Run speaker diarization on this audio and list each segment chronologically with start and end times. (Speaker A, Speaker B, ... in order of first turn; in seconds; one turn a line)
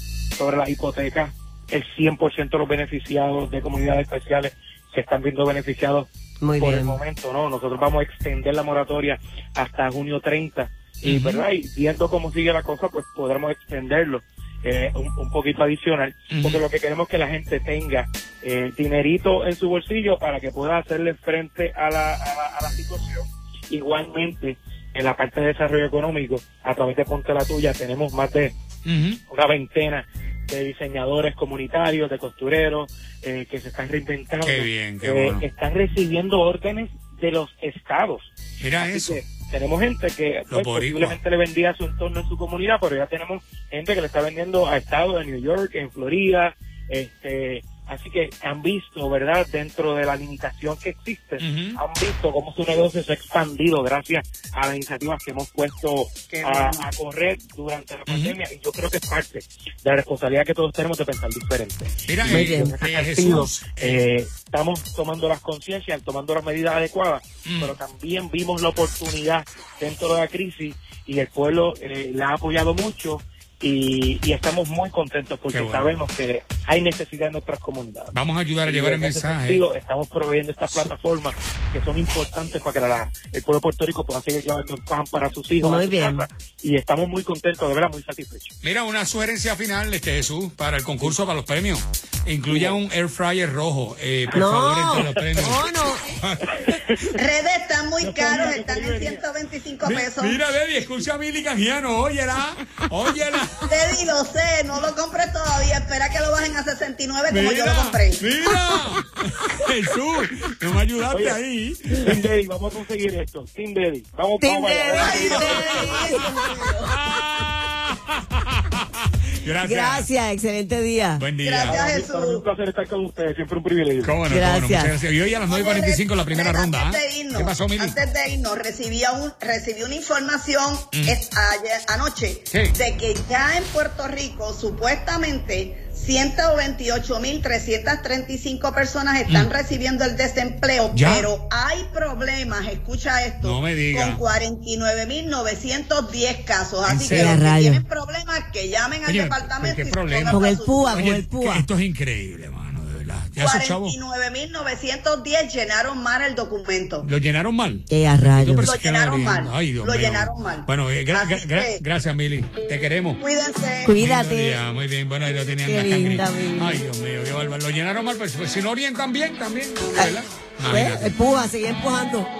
Speaker A: 0.4-28.6
Speaker B: 6.4-7.0
Speaker C: 11.0-11.4
Speaker C: 16.3-16.6
Speaker C: 28.9-29.2
Speaker A: 29.3-78.1
Speaker C: 34.4-35.5
Speaker C: 38.6-39.2
Speaker C: 40.5-41.2
Speaker C: 51.4-51.8
Speaker D: 56.3-56.9
Speaker C: 58.1-58.3
Speaker C: 62.1-64.0
Speaker B: 62.2-62.7
Speaker C: 67.4-67.8
Speaker C: 75.5-75.9
Speaker C: 78.1-79.6
Speaker A: 78.6-88.5
Speaker B: 85.6-86.2
Speaker C: 88.6-97.0
Speaker A: 92.5-92.8
Speaker B: 94.3-96.0
Speaker A: 96.5-96.8
Speaker D: 97.1-100.4
Speaker A: 98.0-99.2
Speaker C: 99.8-103.6
Speaker D: 103.7-108.2
Speaker C: 107.3-112.2
Speaker A: 111.1-111.4
Speaker A: 112.0-116.0
Speaker B: 114.4-116.3
Speaker D: 114.9-117.0
Speaker C: 115.3-116.1
Speaker C: 116.9-118.8
Speaker C: 119.4-120.1
Speaker B: 119.6-121.2
Speaker C: 121.2-121.8
Speaker D: 121.4-122.4
Speaker A: 121.7-124.2
Speaker C: 124.0-128.0
Speaker B: 124.3-124.9
Speaker D: 125.5-151.1
Speaker C: 140.9-141.3
Speaker C: 143.4-144.2
Speaker C: 146.8-147.4
Speaker B: 147.1-147.8
Speaker C: 149.0-153.9
Speaker B: 150.3-151.7
Speaker D: 153.4-157.1
Speaker C: 157.0-163.2
Speaker B: 157.9-158.7
Speaker D: 158.6-161.8
Speaker D: 163.2-164.0
Speaker B: 163.8-164.6
Speaker C: 164.0-171.1
Speaker B: 165.6-166.8
Speaker B: 169.9-172.3